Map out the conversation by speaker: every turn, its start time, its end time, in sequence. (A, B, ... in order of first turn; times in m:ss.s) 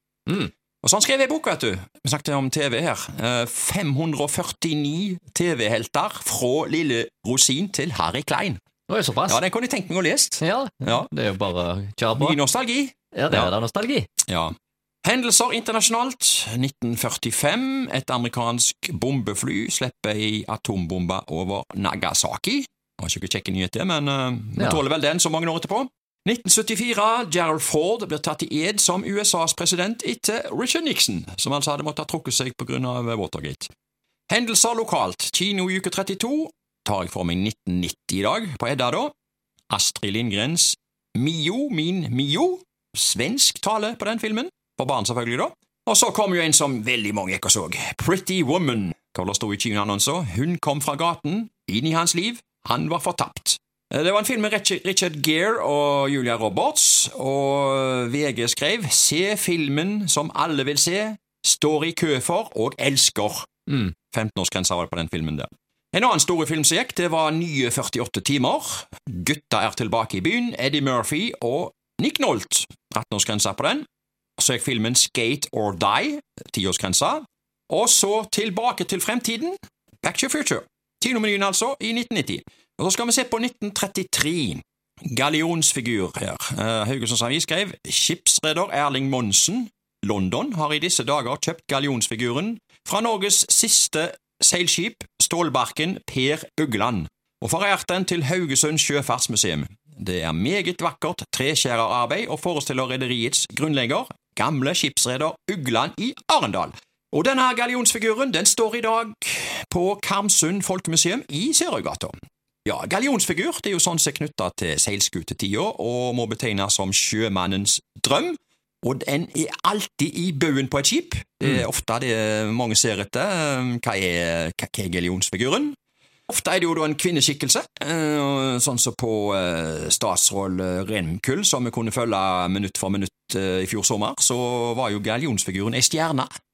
0:00.8-0:08.6 A
0:08.9-0:09.4 B
0:09.3-0:11.1 A
0:10.4-0:12.4 B
0:12.1-0:13.5 A
0:13.1-0:14.1 B
0:14.3-0:14.5 A
0:15.0-0:33.7 A
0:34.3-0:39.1 A
0:39.7-1:03.5 A
1:03.7-1:03.9 B
1:04.1-1:13.9 A
1:14.4-1:52.1 A
1:52.6-2:05.8 A
2:06.3-2:16.3 A